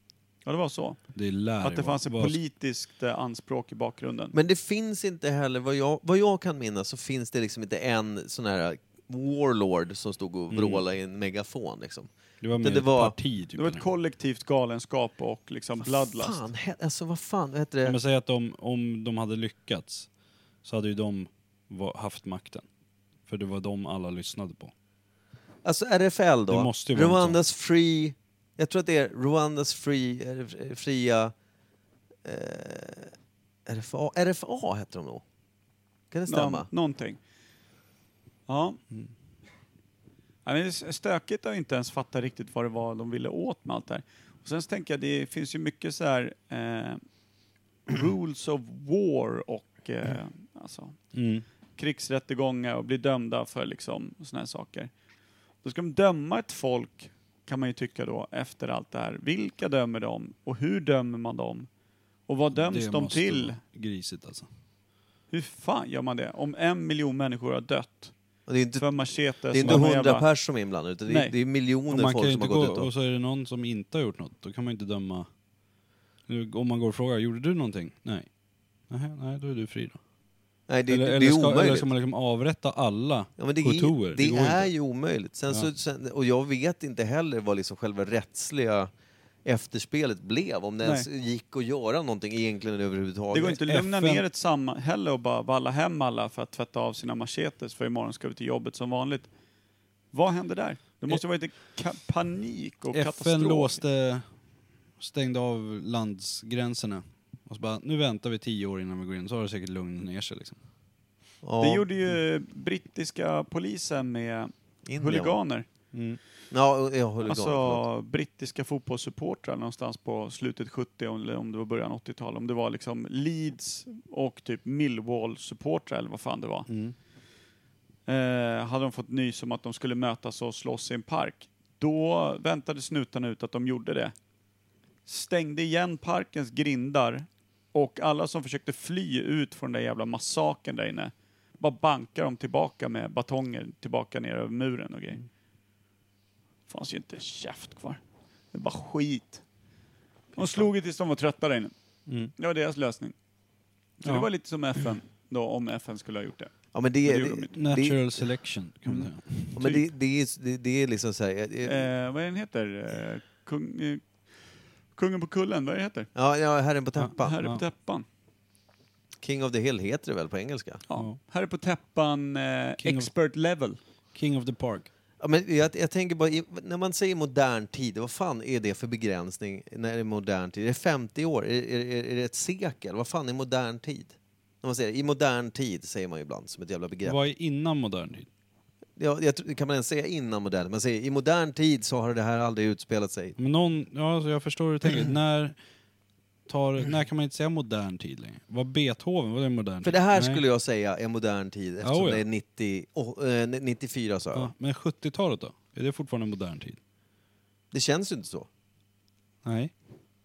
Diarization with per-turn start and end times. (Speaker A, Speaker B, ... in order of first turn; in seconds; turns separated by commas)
Speaker A: 0.4-4.3, Speaker B: 1.1-2.4, Speaker C: 4.3-12.1, Speaker B: 10.5-10.8, Speaker B: 12.4-13.8, Speaker C: 12.6-13.2, Speaker A: 13.5-16.4, Speaker C: 15.8-18.0, Speaker B: 17.8-20.1, Speaker B: 20.6-22.6, Speaker B: 23.2-24.7, Speaker C: 25.6-31.3, Speaker B: 26.5-27.4, Speaker C: 32.2-33.1, Speaker C: 33.7-35.2, Speaker C: 36.1-36.7, Speaker A: 36.3-37.2, Speaker A: 38.5-38.8, Speaker A: 40.4-47.0, Speaker A: 47.9-51.0, Speaker B: 51.1-51.5, Speaker A: 51.8-54.9, Speaker A: 55.6-61.7, Speaker A: 62.3-63.6, Speaker B: 62.5-64.5, Speaker A: 65.3-68.1, Speaker C: 68.5-68.9, Speaker A: 68.8-70.3, Speaker C: 69.5-72.9, Speaker A: 71.1-71.3, Speaker B: 71.9-75.3, Speaker B: 76.3-78.3, Speaker B: 78.9-80.0, Speaker C: 80.7-81.9, Speaker B: 80.9-84.7, Speaker C: 83.4-88.9, Speaker C: 89.4-93.6, Speaker A: 93.3-99.3, Speaker B: 93.7-94.2, Speaker A: 100.1-103.8, Speaker B: 102.9-104.3, Speaker B: 105.0-110.6, Speaker C: 111.4-111.8, Speaker A: 111.6-115.7, Speaker C: 114.8-115.4, Speaker B: 115.9-116.2, Speaker C: 116.5-117.8, Speaker A: 117.2-126.7, Speaker B: 126.7-127.0, Speaker A: 128.1-134.1, Speaker A: 135.1-145.2, Speaker A: 146.7-148.0, Speaker A: 148.5-149.4, Speaker A: 150.3-151.7, Speaker B: 152.1-152.3, Speaker A: 152.3-153.1, Speaker A: 154.0-157.5, Speaker C: 156.7-158.3, Speaker B: 157.5-159.6, Speaker A: 158.9-159.8, Speaker C: 159.5-161.9, Speaker A: 161.6-166.1, Speaker C: 166.1-167.4, Speaker B: 167.0-167.6, Speaker A: 167.2-168.0, Speaker C: 169.2-170.8, Speaker A: 170.9-173.8, Speaker B: 172.8-173.1, Speaker B: 174.1-174.9, Speaker C: 175.2-187.2, Speaker B: 187.1-188.3, Speaker C: 189.0-193.3, Speaker B: 193.4-195.6, Speaker B: 196.5-200.4, Speaker C: 199.8-204.5, Speaker B: 201.8-202.2, Speaker B: 204.3-206.8, Speaker C: 207.7-208.5, Speaker B: 209.4-209.7